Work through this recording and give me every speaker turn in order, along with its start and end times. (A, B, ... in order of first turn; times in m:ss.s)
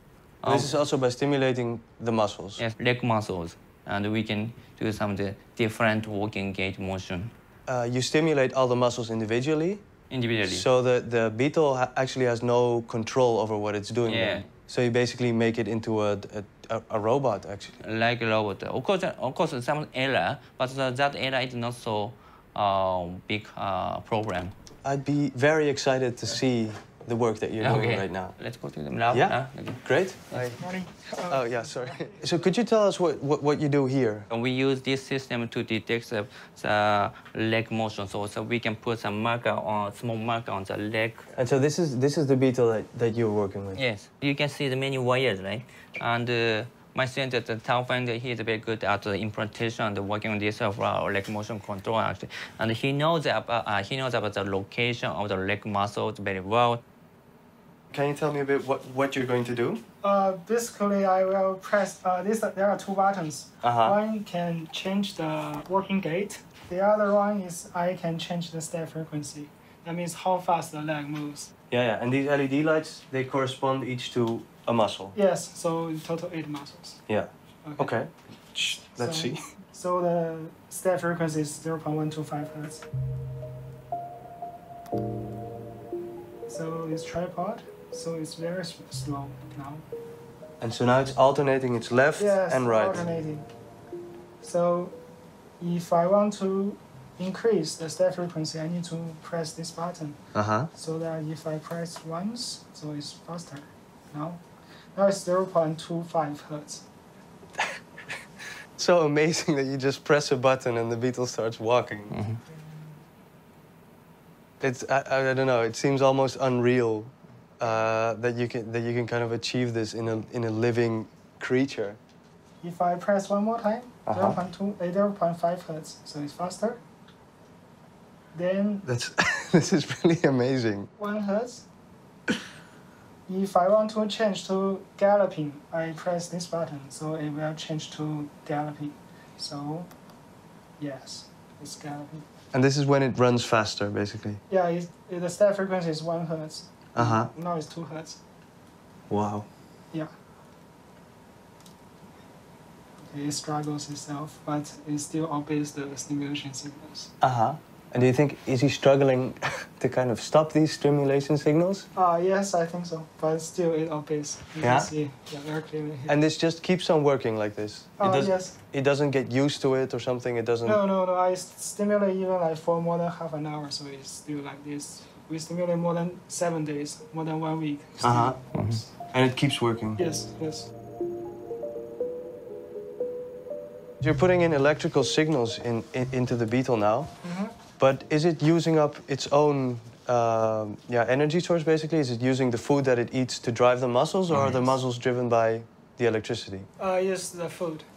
0:00.4-0:00.7 A
0:00.4-0:02.6 B
0:02.6-0:07.3 A
0:07.7-0:09.8 B
0:10.1-0:10.7 A
0:10.4-0:17.8 B
0:14.1-0:14.5 A
0:17.8-0:24.5 A
0:24.8-0:28.4 B
0:27.6-0:30.6 A
0:29.1-0:30.6 B
0:30.6-0:32.3 C
0:31.3-0:34.3 B
0:34.3-0:41.3 A
0:41.4-0:43.8 B
0:43.8-0:56.8 A
0:57.9-0:59.8 B
1:00.0-1:11.5 C
1:03.6-1:04.0 B
1:11.7-1:15.2 B
1:15.1-1:17.0 C
1:17.1-1:19.4 B
1:17.6-1:17.9 C
1:19.0-1:22.9 C
1:26.5-1:29.9 C
1:30.6-1:33.0 B
1:32.2-1:33.5 C
1:34.4-1:35.0 C
1:35.6-1:40.2 C
1:40.3-1:40.7 B
1:40.7-1:44.4 C
1:45.0-1:46.9 C
1:48.8-1:52.2 B
1:52.1-1:52.4 A
1:54.6-2:02.0 B
2:02.6-2:06.8 C
2:04.1-2:04.4 B
2:08.3-2:08.8 C
2:08.8-2:10.9 B
2:11.0-2:11.7 C
2:13.3-2:19.9 C
2:20.8-2:22.2 C
2:22.5-2:24.4 B
2:24.5-2:28.2 C
2:27.0-2:27.3 B
2:29.1-2:29.5 B
2:33.0-2:37.1 C
2:37.2-2:41.9 B
2:42.0-2:46.2 C
2:44.6-2:44.9 B
2:46.1-2:50.8 B
2:48.0-2:48.6 C
2:50.6-2:58.9 C
2:58.0-3:00.0 B
2:58.5-2:58.8 A
3:00.0-3:00.7 C
3:04.0-3:07.1 B
3:07.2-3:07.5 C
3:07.8-3:16.7 B
3:14.3-3:14.6 A
3:16.8-3:17.9 C